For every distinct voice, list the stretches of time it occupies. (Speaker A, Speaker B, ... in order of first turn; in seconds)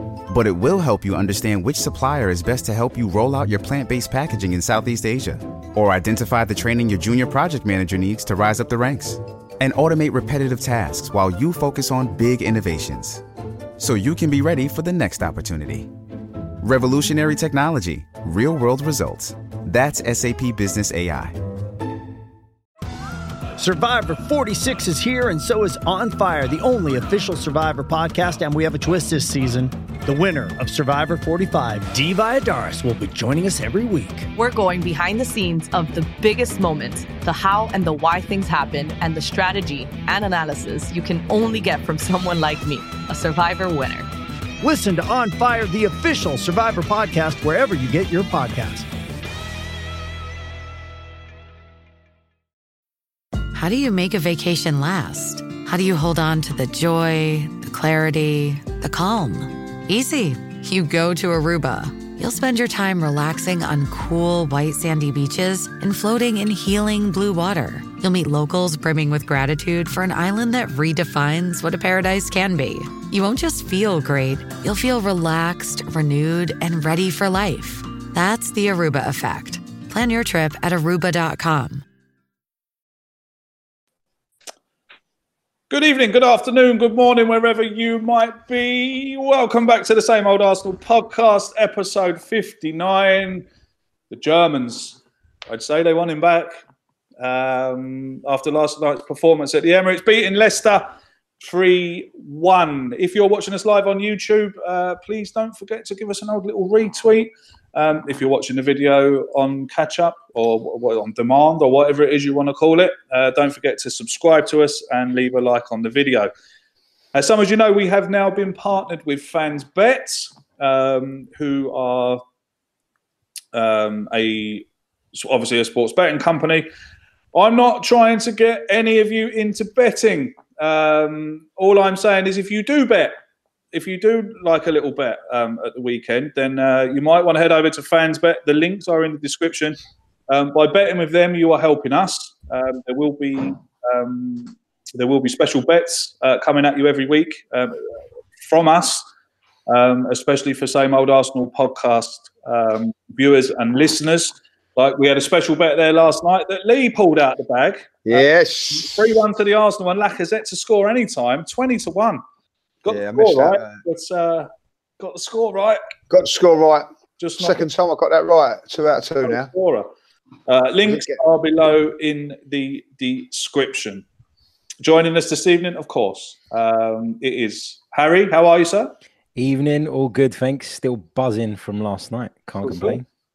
Speaker A: 0.3-13.2, 13.8-15.9, 16.6-21.4
Speaker B: 23.6-34.3, 44.6-48.9
Speaker C: 34.4-44.1
Speaker D: 53.5-81.8
Speaker E: 85.7-93.5, 94.1-96.5, 97.2-116.3, 117.1-122.2, 123.5-126.7, 127.3-133.1, 133.7-147.8, 148.5-149.1, 149.7-162.2, 162.8-164.5, 165.0-165.8, 167.2-167.7, 169.2-169.9, 170.5-174.0, 174.8-178.9, 182.7-183.0
Speaker F: 158.1-159.1, 162.9-163.7, 166.1-166.9, 167.4-169.5, 170.8-171.2
Speaker G: 179.4-183.1